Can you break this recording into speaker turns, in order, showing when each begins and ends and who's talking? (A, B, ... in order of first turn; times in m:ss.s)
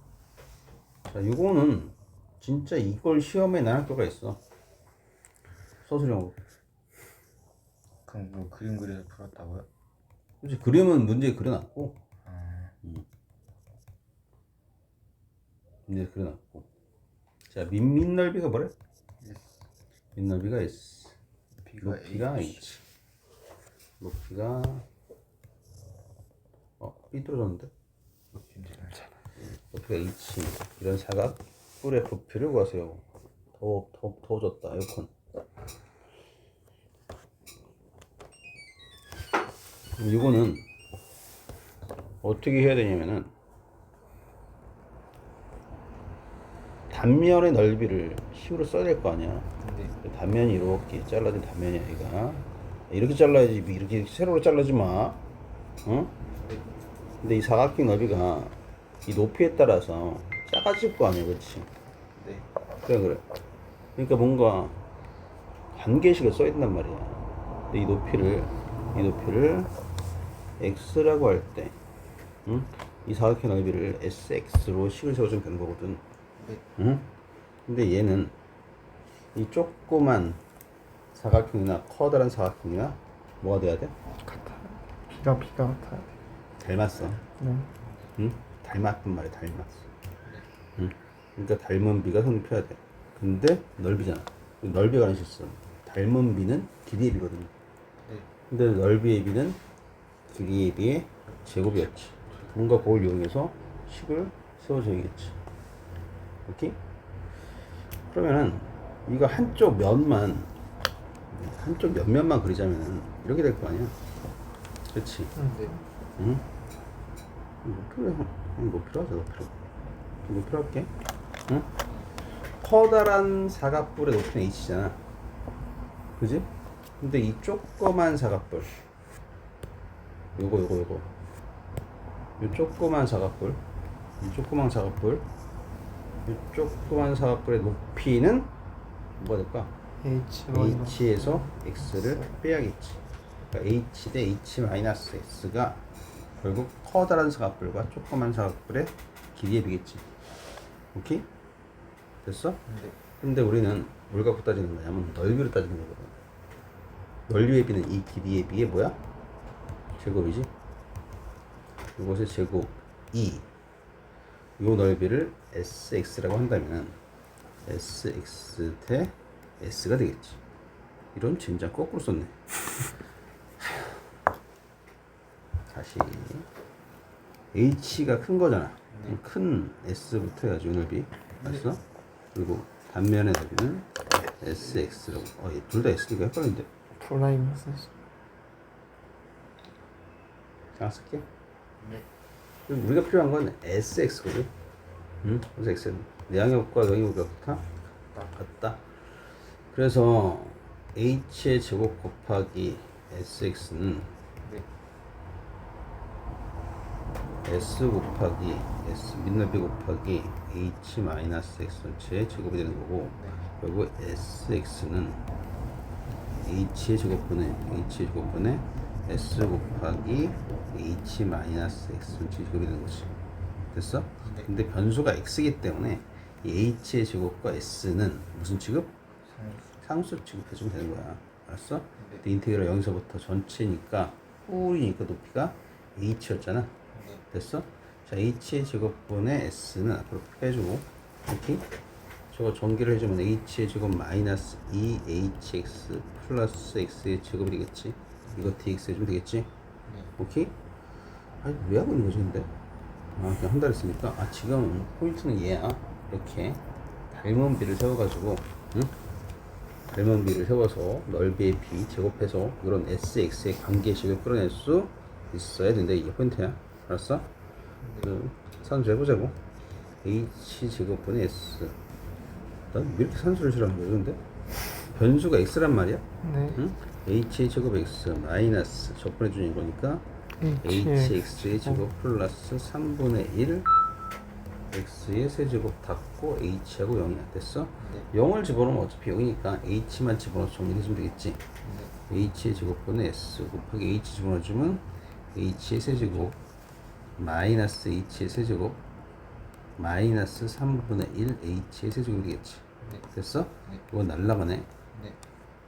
0:01.1-0:04.4 A
0:05.8-0:06.3 A
0:08.0-0:09.7 B
0:10.4-0:12.0 A
0:12.2-0:12.7 B
0:15.9-0:16.6 A
0:17.5-0:18.7 A
0:19.2-0:19.6 B
0:20.1-0:21.2 A
0:21.6-0:22.6 B
0:21.8-0:22.8 A
0:24.0-0:24.8 A
0:26.8-0:27.7 A
0:28.4-0:29.0 B
0:29.7-0:33.0 A
0:33.6-0:35.1 A
0:40.0-0:40.6 A
0:42.2-0:43.3 A
0:46.9-0:49.5 A
0:49.6-0:49.9 B
0:50.0-0:55.2 A
0:55.8-0:56.1 A
0:57.2-1:01.7 A
1:02.2-1:02.5 B
1:02.8-1:03.2 A
1:04.0-1:04.8 A
1:05.7-1:09.7 A
1:10.6-1:11.8 A
1:12.4-1:16.0 A
1:16.8-1:17.1 A
1:17.7-1:18.3 A
1:19.3-1:20.4 A
1:21.1-1:23.9 A
1:24.2-1:26.1 C
1:26.6-1:27.2 A
1:27.4-1:27.7 C
1:27.8-1:28.1 B
1:28.2-1:29.8 A
1:30.8-1:37.5 A
1:38.5-1:39.6 A
1:40.3-1:45.4 A
1:46.4-1:46.8 A
1:48.1-1:50.5 A
1:51.3-1:54.0 A
1:54.9-1:55.4 A
1:55.4-1:55.8 C
1:55.4-1:55.7 B
1:56.2-1:56.4 A
1:57.6-1:59.6 A
2:00.2-2:00.9 A
2:02.6-2:05.0 A
2:06.2-2:06.5 A
2:07.0-2:08.8 A
2:10.4-2:11.1 A
2:12.4-2:13.6 A
2:14.2-2:15.3 A
2:16.2-2:18.5 A
2:19.2-2:19.7 A
2:20.0-2:22.2 C
2:20.5-2:23.0 A
2:23.5-2:25.8 A
2:26.4-2:30.0 A
2:30.9-2:31.3 A
2:32.2-2:32.6 A
2:32.7-2:32.9 B
2:33.2-2:36.1 A
2:37.3-2:39.0 A
2:40.0-2:40.5 A
2:42.0-2:43.4 A
2:44.6-2:47.0 A
2:47.6-2:50.4 A
2:51.1-2:52.4 A
2:53.6-2:54.0 A
2:55.7-2:56.5 A
2:57.5-3:01.8 A
2:58.9-2:59.2 B
3:02.3-3:06.7 A
3:07.0-3:07.9 C
3:10.8-3:11.2 A
3:11.8-3:12.0 B
3:12.7-3:14.5 A
3:15.2-3:17.7 A
3:18.3-3:18.8 A
3:19.7-3:24.1 A
3:27.4-3:35.2 A
3:36.3-3:43.1 A
3:43.7-3:48.9 A
3:44.2-3:44.5 B
3:49.3-3:49.7 B
3:49.8-3:56.7 A
3:52.0-3:52.2 B
3:56.9-3:57.2 B
3:57.3-4:01.6 A
4:02.3-4:09.5 A
4:10.2-4:10.5 A
4:11.4-4:12.5 A
4:13.2-4:18.9 A
4:19.9-4:27.3 A
4:27.8-4:28.1 B
4:28.0-4:29.4 A
4:30.0-4:31.8 A
4:32.7-4:34.2 A
4:34.9-4:40.0 A
4:36.2-4:36.6 C
4:40.4-4:41.8 C
4:40.6-4:43.7 A
4:44.7-4:51.4 A
4:47.8-4:48.1 B
4:51.6-4:51.9 B
4:52.1-4:56.3 A
4:57.2-4:58.8 A
4:59.8-5:04.7 A